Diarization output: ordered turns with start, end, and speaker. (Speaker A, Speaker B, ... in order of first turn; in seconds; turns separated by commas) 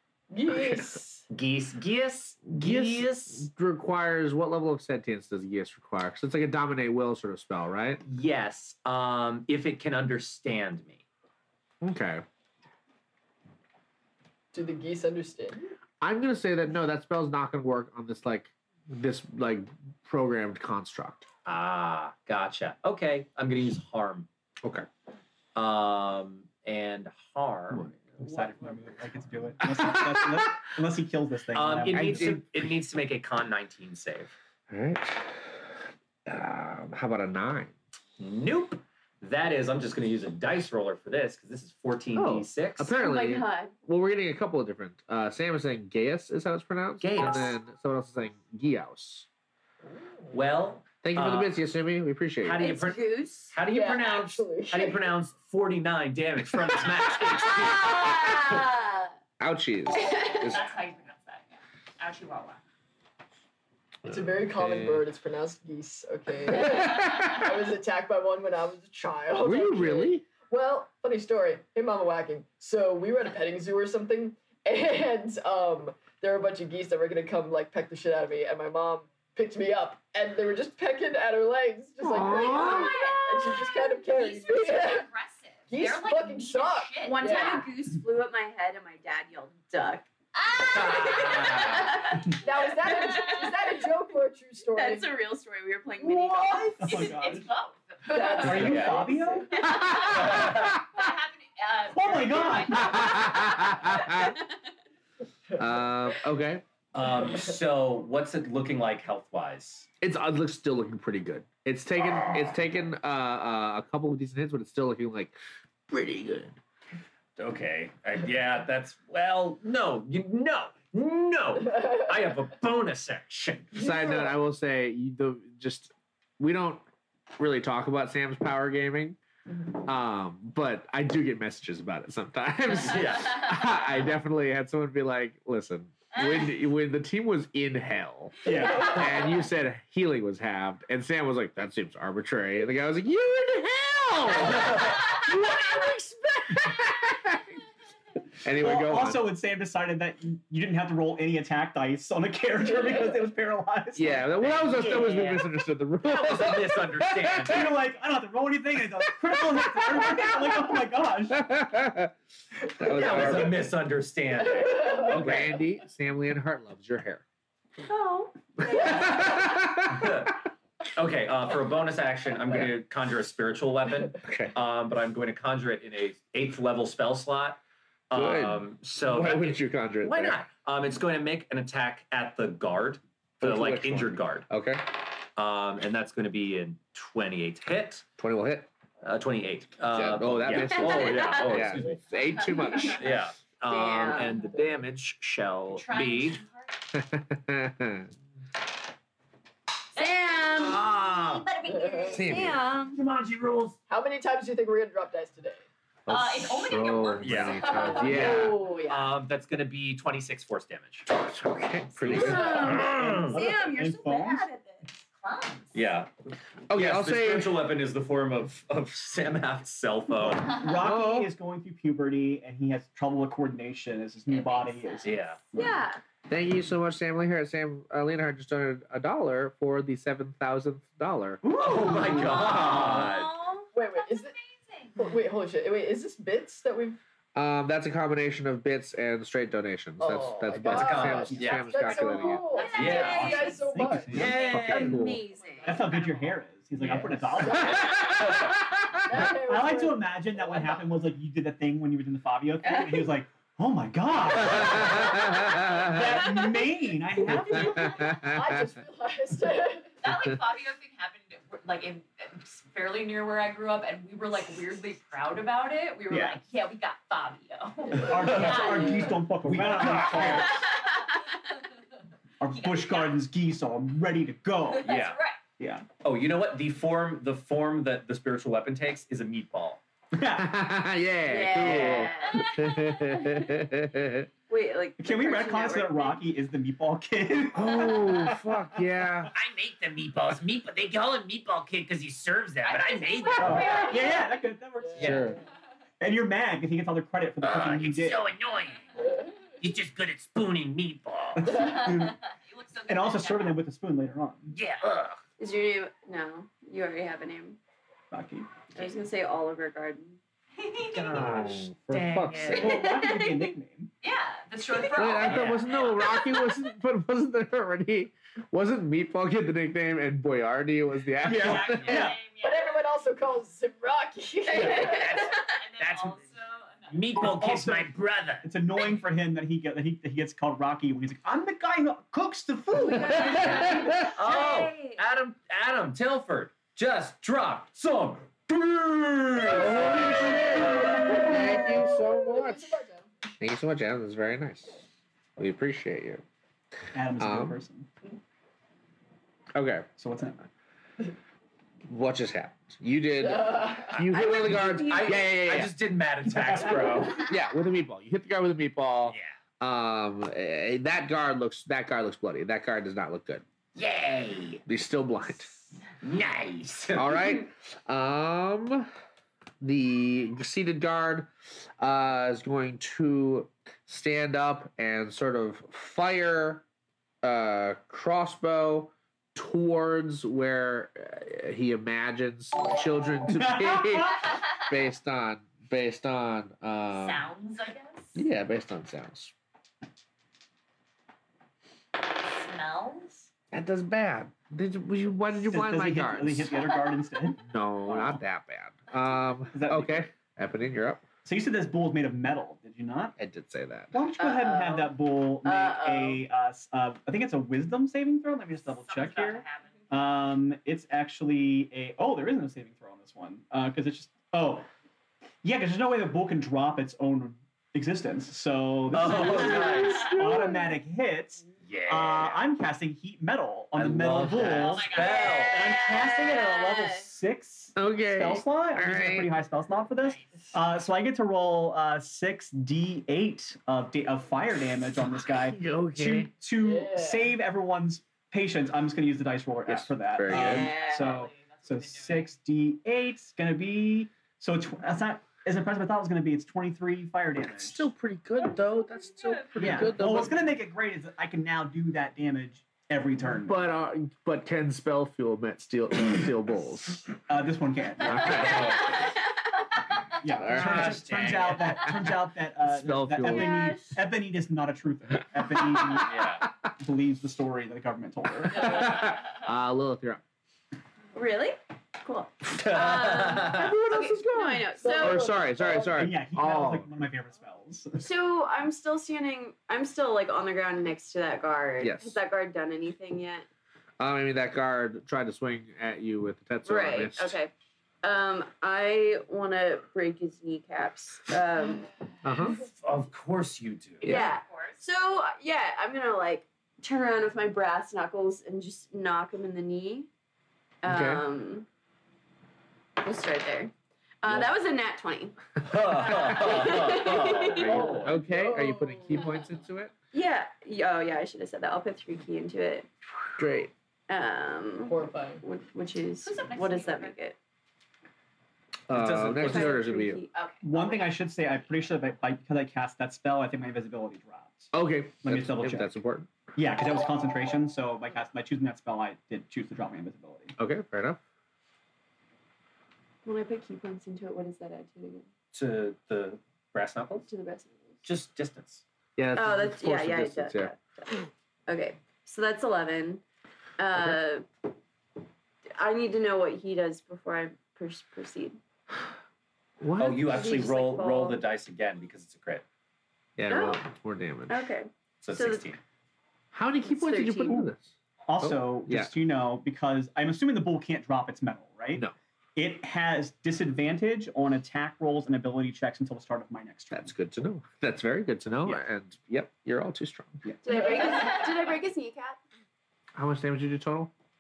Speaker A: 0.3-1.3, Speaker B: 0.5-1.0, Speaker C: 1.3-3.5, Speaker B: 2.5-8.0, Speaker C: 8.1-11.0, Speaker B: 11.8-12.2, Speaker A: 14.5-15.7, Speaker B: 16.0-21.3, Speaker C: 21.4-24.3, Speaker C: 25.6-27.9, Speaker B: 27.7-28.0, Speaker D: 28.1-32.4, Speaker B: 29.6-30.5, Speaker C: 31.5-34.4, Speaker B: 31.9-32.7, Speaker B: 34.7-35.6, Speaker B: 36.3-37.7, Speaker C: 38.2-42.9, Speaker B: 42.1-49.3, Speaker E: 43.0-43.7, Speaker C: 47.0-47.6, Speaker A: 49.8-50.4, Speaker C: 50.3-51.6, Speaker B: 51.0-52.8, Speaker C: 52.4-58.5, Speaker E: 52.6-53.5, Speaker A: 53.7-55.1, Speaker E: 57.4-59.1, Speaker B: 59.4-60.6, Speaker F: 59.9-62.6, Speaker B: 64.0-65.1, Speaker A: 64.0-85.1, Speaker B: 66.5-67.3, Speaker B: 69.4-70.3, Speaker B: 82.0-82.9, Speaker E: 82.2-83.8, Speaker F: 82.2-87.7, Speaker A: 85.7-87.7, Speaker E: 87.0-93.5, Speaker F: 90.4-93.4, Speaker C: 90.7-91.9, Speaker A: 92.4-95.1, Speaker E: 94.7-97.1, Speaker D: 96.0-97.5, Speaker F: 96.8-99.0, Speaker A: 98.1-99.6, Speaker E: 98.1-98.4, Speaker D: 98.4-99.7, Speaker C: 98.5-99.0, Speaker F: 99.5-104.3, Speaker E: 99.7-100.3, Speaker B: 99.7-100.7, Speaker C: 100.1-100.8, Speaker D: 101.9-103.3, Speaker B: 102.7-104.4, Speaker B: 105.6-106.6, Speaker A: 105.6-105.8, Speaker C: 106.9-109.9, Speaker A: 107.0-107.5, Speaker B: 110.0-115.3, Speaker B: 115.9-116.6, Speaker C: 117.4-123.8, Speaker A: 123.7-124.3, Speaker B: 123.8-126.8, Speaker B: 127.4-129.2, Speaker A: 129.5-129.8, Speaker B: 129.8-147.6, Speaker C: 132.7-133.5, Speaker F: 136.1-136.5, Speaker D: 138.4-139.1, Speaker C: 144.4-145.0, Speaker B: 148.4-149.3, Speaker D: 148.6-154.9, Speaker B: 154.0-157.7, Speaker C: 154.4-155.5, Speaker C: 156.0-157.8, Speaker D: 157.4-161.5, Speaker B: 159.3-160.6, Speaker B: 161.3-162.1, Speaker B: 162.7-163.7, Speaker C: 162.9-165.6, Speaker A: 164.4-165.4, Speaker B: 165.0-167.2, Speaker E: 167.9-169.3, Speaker B: 168.6-170.3, Speaker C: 169.9-170.4, Speaker C: 170.9-184.5, Speaker B: 172.5-172.8, Speaker B: 174.2-174.6, Speaker B: 178.1-180.4, Speaker B: 183.4-184.9, Speaker C: 185.4-188.1, Speaker B: 188.2-188.7, Speaker C: 189.0-192.0, Speaker B: 189.9-193.2, Speaker E: 190.7-191.7, Speaker F: 192.2-193.1, Speaker E: 192.7-192.9, Speaker C: 192.8-196.4, Speaker E: 193.7-194.4, Speaker A: 194.1-194.6, Speaker F: 195.7-196.8, Speaker B: 196.9-198.1, Speaker E: 200.0-200.9, Speaker F: 200.0-202.3, Speaker C: 200.6-201.4, Speaker G: 201.1-201.3, Speaker E: 201.5-203.0, Speaker A: 201.7-202.3, Speaker B: 202.1-202.6, Speaker C: 202.9-203.8, Speaker G: 202.9-203.4, Speaker A: 203.9-205.6, Speaker B: 206.1-208.6, Speaker F: 206.1-208.4, Speaker C: 207.2-211.1, Speaker E: 207.8-209.1, Speaker B: 211.1-213.3, Speaker C: 212.0-213.4, Speaker E: 212.1-214.9, Speaker D: 212.5-214.5, Speaker F: 215.2-215.8, Speaker C: 215.7-216.1, Speaker B: 216.7-217.6, Speaker C: 216.7-220.5, Speaker F: 220.5-220.8, Speaker D: 220.5-225.8, Speaker B: 220.8-221.3, Speaker F: 224.3-225.3, Speaker C: 225.0-225.4, Speaker E: 225.5-226.0, Speaker B: 226.3-232.8, Speaker D: 231.4-233.0, Speaker C: 231.6-233.3, Speaker E: 232.7-233.7, Speaker F: 233.0-235.1, Speaker A: 233.8-234.3, Speaker A: 235.0-237.0, Speaker B: 237.3-242.5, Speaker A: 240.0-244.4, Speaker C: 240.6-241.9, Speaker D: 241.3-241.6, Speaker F: 241.9-246.5, Speaker E: 242.5-243.6, Speaker C: 242.7-243.4, Speaker D: 242.9-244.5, Speaker C: 244.1-245.0, Speaker E: 244.2-245.9, Speaker B: 244.4-245.2, Speaker D: 245.6-247.9, Speaker A: 247.3-250.8, Speaker B: 247.4-248.4, Speaker C: 248.2-248.5, Speaker D: 249.2-258.0, Speaker E: 252.6-253.1, Speaker B: 254.4-256.1, Speaker F: 255.3-256.5, Speaker A: 257.4-259.9, Speaker B: 257.5-258.7, Speaker F: 260.0-269.3, Speaker B: 260.1-260.3, Speaker D: 266.1-266.4, Speaker D: 267.9-270.7, Speaker C: 268.2-268.7, Speaker A: 268.4-269.1, Speaker C: 269.4-270.6, Speaker F: 270.0-271.6, Speaker D: 272.4-274.9, Speaker F: 272.5-273.3, Speaker F: 274.6-275.4, Speaker C: 274.8-275.2, Speaker D: 275.6-275.9, Speaker C: 276.0-279.8, Speaker D: 280.1-280.6, Speaker B: 280.3-284.3, Speaker E: 281.2-282.5, Speaker F: 281.7-283.2, Speaker E: 284.5-286.2, Speaker D: 285.0-289.3, Speaker B: 287.5-289.3, Speaker G: 289.3-293.7, Speaker F: 292.6-294.5, Speaker D: 293.4-295.4, Speaker A: 294.8-295.4, Speaker B: 295.0-295.4, Speaker D: 296.0-298.2, Speaker G: 297.4-298.9, Speaker A: 299.0-299.3, Speaker G: 299.6-301.6, Speaker D: 301.4-302.2, Speaker F: 301.6-303.6, Speaker D: 302.9-304.5, Speaker G: 304.5-305.2, Speaker E: 305.4-307.6, Speaker D: 308.1-308.5, Speaker E: 308.7-310.2, Speaker F: 310.6-311.3, Speaker C: 310.9-312.6, Speaker B: 311.1-312.8, Speaker D: 312.5-313.9, Speaker E: 312.6-313.5, Speaker F: 314.0-316.6, Speaker B: 314.9-322.1, Speaker D: 315.2-315.6, Speaker D: 321.2-322.2, Speaker F: 321.2-322.8, Speaker A: 322.4-325.2, Speaker F: 324.5-327.3, Speaker G: 324.6-326.2, Speaker E: 324.6-325.0, Speaker G: 326.9-328.5, Speaker D: 327.2-327.9, Speaker D: 328.4-333.7, Speaker E: 332.7-335.0, Speaker F: 333.0-334.6, Speaker B: 333.1-334.1, Speaker C: 334.1-340.1, Speaker A: 339.5-343.1, Speaker B: 339.5-342.8, Speaker B: 343.4-344.8, Speaker B: 345.4-346.2, Speaker D: 346.9-347.9, Speaker B: 347.2-347.6, Speaker B: 349.6-349.9, Speaker D: 350.0-350.5, Speaker B: 351.9-355.8, Speaker A: 353.2-353.9, Speaker C: 353.9-357.3, Speaker E: 354.1-355.2, Speaker D: 356.4-357.0, Speaker B: 356.6-363.4, Speaker G: 363.8-364.6, Speaker B: 364.7-365.5, Speaker G: 366.0-367.0, Speaker B: 366.9-368.9, Speaker B: 369.6-376.6, Speaker B: 377.2-387.3, Speaker D: 383.3-384.2, Speaker F: 386.9-388.2, Speaker B: 388.1-389.3, Speaker F: 392.0-393.3, Speaker B: 393.5-396.6, Speaker D: 395.4-398.2, Speaker F: 396.7-397.1, Speaker B: 397.4-401.1, Speaker D: 399.5-400.1, Speaker D: 401.2-403.2, Speaker B: 403.2-404.0, Speaker D: 403.9-414.7, Speaker E: 404.2-406.2, Speaker F: 408.7-409.9, Speaker D: 415.4-447.9, Speaker C: 418.9-420.1, Speaker B: 419.2-420.7, Speaker F: 419.3-420.3, Speaker C: 421.6-422.4, Speaker C: 423.8-425.7, Speaker F: 424.4-426.0, Speaker E: 425.0-427.1, Speaker B: 427.8-429.3, Speaker F: 429.9-430.6, Speaker B: 435.2-436.3, Speaker A: 436.5-437.4, Speaker B: 439.7-440.7, Speaker E: 440.3-441.1, Speaker F: 440.4-442.4, Speaker B: 447.5-450.5, Speaker F: 448.4-450.2, Speaker D: 449.6-453.6, Speaker B: 453.3-457.1, Speaker D: 457.3-458.6, Speaker B: 458.1-458.8, Speaker C: 458.1-459.0, Speaker F: 458.4-459.1, Speaker D: 460.2-468.9, Speaker B: 460.3-461.4, Speaker C: 460.5-461.8, Speaker F: 461.7-462.0, Speaker B: 462.6-463.7, Speaker E: 463.2-464.0, Speaker C: 466.0-466.5, Speaker B: 468.5-470.2, Speaker F: 468.6-469.3, Speaker E: 471.1-475.3, Speaker C: 472.5-473.8, Speaker B: 473.4-476.9, Speaker A: 474.8-476.1, Speaker D: 475.9-478.1, Speaker E: 478.0-483.5, Speaker B: 481.8-482.2, Speaker B: 484.0-487.4, Speaker E: 486.6-491.9, Speaker B: 492.2-492.6, Speaker C: 492.5-494.1, Speaker B: 494.0-494.3, Speaker E: 494.0-500.1, Speaker F: 494.1-494.8, Speaker E: 500.8-501.7, Speaker B: 500.9-501.2, Speaker E: 503.0-508.0, Speaker C: 505.6-508.2, Speaker A: 507.5-509.5, Speaker B: 507.6-509.9, Speaker E: 510.1-512.9, Speaker B: 513.4-513.7, Speaker E: 514.1-517.4, Speaker A: 514.8-515.4, Speaker F: 516.2-517.2, Speaker B: 518.9-520.2, Speaker C: 518.9-519.8, Speaker E: 519.4-521.1, Speaker D: 520.6-525.9, Speaker B: 524.7-526.3, Speaker D: 526.5-530.5, Speaker B: 530.6-531.2, Speaker E: 533.2-535.3, Speaker C: 535.5-537.3, Speaker E: 537.3-538.0, Speaker C: 538.0-538.8, Speaker B: 539.2-540.7, Speaker E: 539.4-543.2, Speaker E: 543.8-544.5, Speaker B: 543.9-544.2, Speaker E: 545.8-548.6, Speaker B: 549.8-550.5, Speaker C: 550.0-552.6, Speaker E: 550.2-551.4, Speaker B: 553.4-554.7, Speaker E: 553.5-553.8, Speaker E: 554.5-555.7, Speaker C: 555.2-555.8, Speaker B: 556.5-559.1, Speaker E: 556.8-557.7, Speaker D: 558.3-562.0, Speaker D: 562.6-567.1, Speaker B: 566.9-570.5, Speaker D: 570.4-570.8, Speaker E: 570.6-572.4, Speaker A: 570.8-571.1, Speaker F: 571.1-571.4, Speaker B: 573.1-574.1